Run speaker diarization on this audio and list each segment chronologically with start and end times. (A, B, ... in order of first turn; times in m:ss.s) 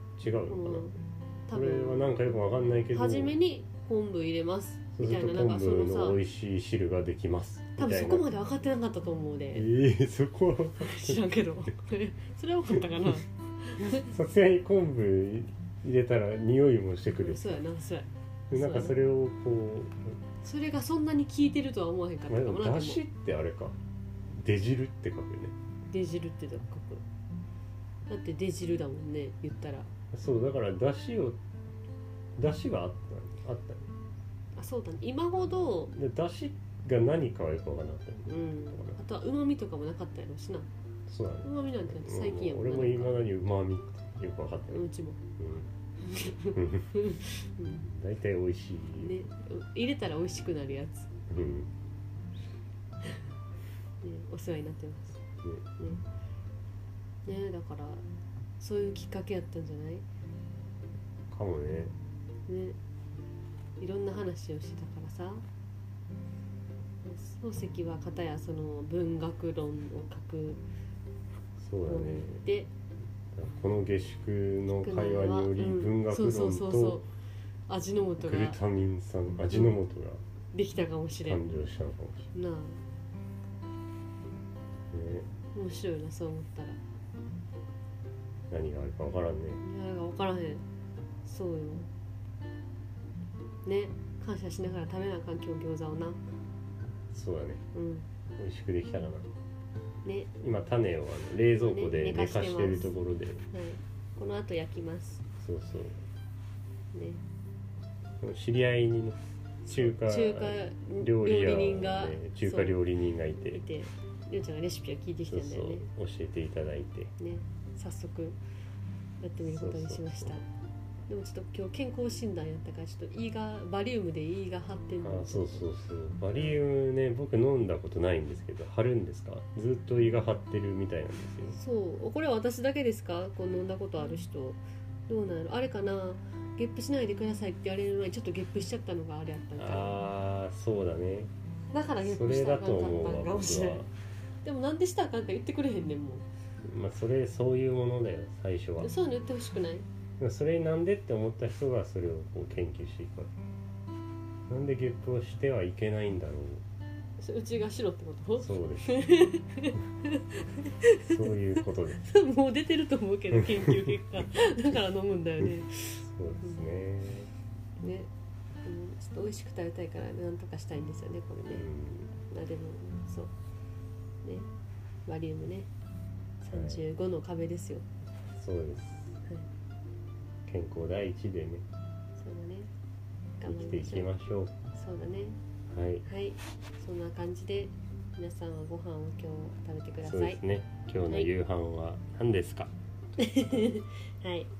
0:00.2-0:00.9 A
0:00.5-0:02.4 B
0:01.5-0:03.4 A
0:02.9-0:06.2 B
0:05.0-0:08.3 A
0:07.8-0:09.7 B
0:09.5-0:11.2 A
0:10.8-0:14.1 B
0:13.9-0:17.6 A
0:17.2-0:19.0 B
0:18.5-0:20.2 A
0:20.4-0:23.0 B
0:22.3-0:23.8 A
0:24.3-0:25.5 A
0:25.9-0:27.0 B
0:28.1-0:29.9 B
0:30.1-0:31.4 A
0:32.4-0:33.9 A
0:34.5-0:35.9 B
0:35.9-0:39.0 A
0:38.2-0:40.7 B
0:41.1-0:44.8 A
0:41.4-0:43.3 B
0:44.7-0:45.2 B
0:45.4-0:45.7 A
0:46.0-0:47.8 B
0:46.5-0:47.0 A
0:47.6-0:49.2 A
0:49.0-0:51.1 B
0:51.3-0:51.7 A
0:54.0-0:55.2 B
0:57.2-0:58.0 B
0:58.6-1:00.0 B
1:01.3-1:01.9 A
1:02.5-1:02.8 B
1:03.8-1:05.4 B
1:07.0-1:10.6 B
1:11.6-1:12.5 A
1:11.8-1:12.7 B
1:13.3-1:17.0 A
1:14.7-1:17.1 B
1:17.7-1:18.6 B
1:18.2-1:20.2 A
1:19.5-1:19.8 B
1:20.5-1:21.4 B
1:21.2-1:22.3 A
1:22.3-1:22.8 B
1:24.9-1:25.3 A
1:25.5-1:26.8 B
1:28.5-1:29.6 A
1:29.6-1:30.6 B
1:31.2-1:31.9 B
1:33.6-1:36.2 B
1:37.1-1:37.6 A
1:37.7-1:38.1 B
1:38.4-1:39.3 A
1:40.0-1:40.3 B
1:40.4-1:43.4 A
1:41.6-1:42.9 B
1:43.5-1:45.2 B
1:45.4-1:46.0 A
1:46.9-1:47.2 B
1:48.2-1:53.6 A
1:49.6-1:52.8 B
1:53.5-1:55.9 B
1:55.3-1:57.1 A
1:57.2-1:58.4 B
1:59.2-2:00.4 B
1:59.4-2:00.4 A
2:01.1-2:05.6 B
2:05.0-2:11.6 A
2:11.5-2:20.0 B
2:19.6-2:21.3 A
2:21.7-2:23.9 B
2:22.0-2:23.9 A
2:24.4-2:26.2 B
2:26.6-2:28.9 A
2:28.8-2:29.8 B
2:30.2-2:33.3 A
2:34.5-2:36.6 A
2:37.2-2:45.9 B
2:38.4-2:39.2 A
2:41.0-2:42.1 A
2:43.3-2:43.9 A
2:45.5-2:47.3 A
2:47.8-2:48.1 B
2:48.6-2:53.3 B
2:51.5-2:52.1 A
2:55.0-2:55.7 B
2:56.4-2:57.8 B
2:56.5-2:56.8 A
2:58.4-2:59.2 A
3:00.4-3:01.6 A
3:02.2-3:02.7 B
3:03.4-3:04.1 B
3:03.4-3:04.5 A
3:04.7-3:05.4 B
3:05.7-3:06.0 A
3:06.0-3:10.4 B
3:10.0-3:12.7 A
3:11.0-3:11.3 B
3:13.2-3:14.5 B